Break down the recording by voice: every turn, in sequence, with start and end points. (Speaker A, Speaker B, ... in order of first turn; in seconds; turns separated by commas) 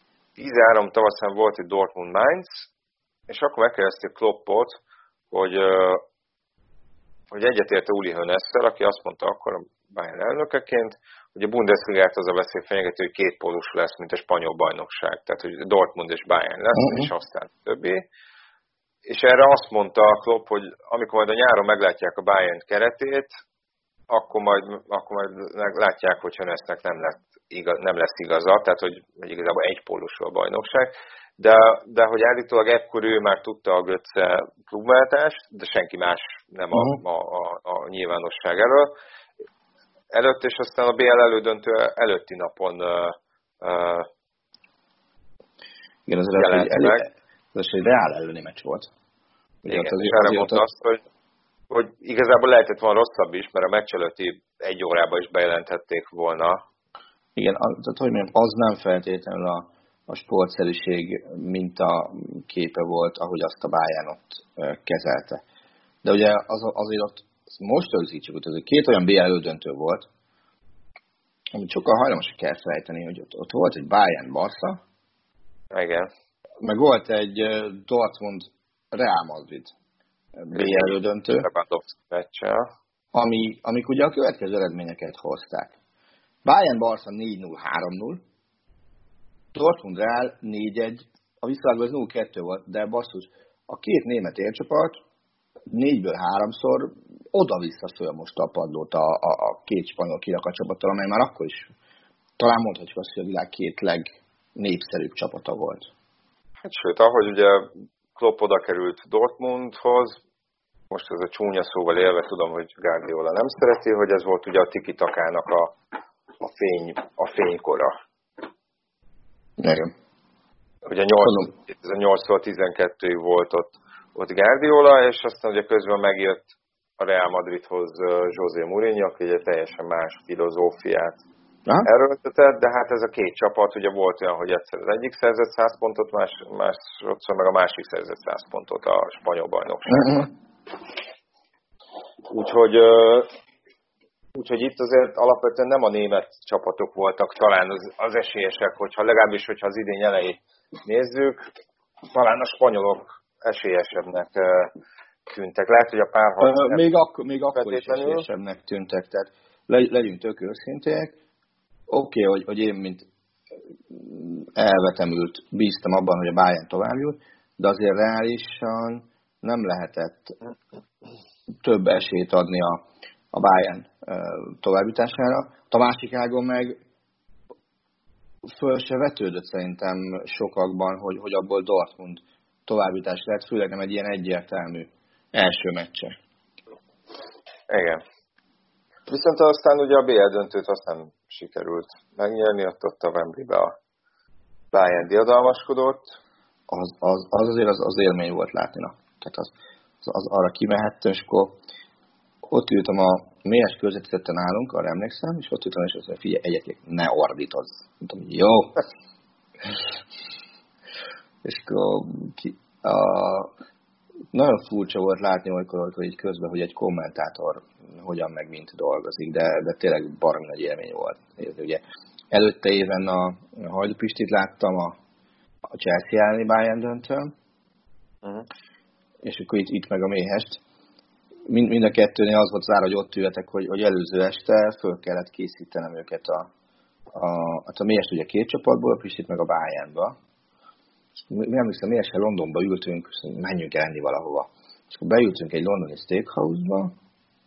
Speaker A: 0.4-2.7, Speaker A: 3.3-4.7, Speaker A: 5.3-6.0, Speaker A: 7.3-18.0, Speaker B: 16.8-17.1, Speaker A: 19.1-23.3, Speaker A: 24.1-38.9, Speaker B: 36.7-37.0, Speaker A: 40.1-44.1, Speaker B: 46.1-48.9, Speaker A: 46.3-47.0, Speaker B: 49.6-50.6, Speaker A: 49.7-51.0, Speaker A: 51.7-56.6, Speaker B: 57.4-65.4, Speaker B: 66.0-70.1, Speaker B: 71.5-74.8, Speaker A: 75.7-76.1, Speaker B: 76.6-79.7, Speaker B: 80.4-81.5, Speaker A: 80.5-82.7, Speaker B: 83.1-85.7, Speaker B: 86.4-88.2, Speaker B: 89.5-95.0, Speaker B: 95.7-101.7, Speaker B: 102.4-105.9, Speaker A: 106.6-110.2, Speaker A: 110.9-115.8, Speaker A: 116.4-117.9, Speaker B: 119.6-119.9, Speaker A: 120.9-131.2, Speaker A: 131.8-140.3, Speaker A: 142.3-143.3, Speaker A: 144.3-151.4, Speaker A: 152.1-154.7, Speaker A: 155.3-156.8, Speaker B: 156.4-161.1, Speaker A: 157.6-158.3, Speaker B: 161.9-163.1, Speaker B: 163.9-170.3, Speaker B: 171.6-172.8, Speaker B: 173.3-176.8, Speaker B: 178.5-186.1, Speaker A: 187.7-188.0, Speaker A: 189.1-193.7, Speaker A: 194.7-196.1, Speaker B: 196.7-199.5, Speaker B: 200.0-201.6, Speaker B: 202.5-208.8, Speaker B: 211.4-213.5, Speaker B: 214.3-221.8, Speaker B: 222.3-225.0, Speaker B: 225.7-227.3, Speaker B: 229.2-230.6, Speaker B: 231.5-236.5, Speaker B: 237.1-240.1, Speaker B: 241.3-246.9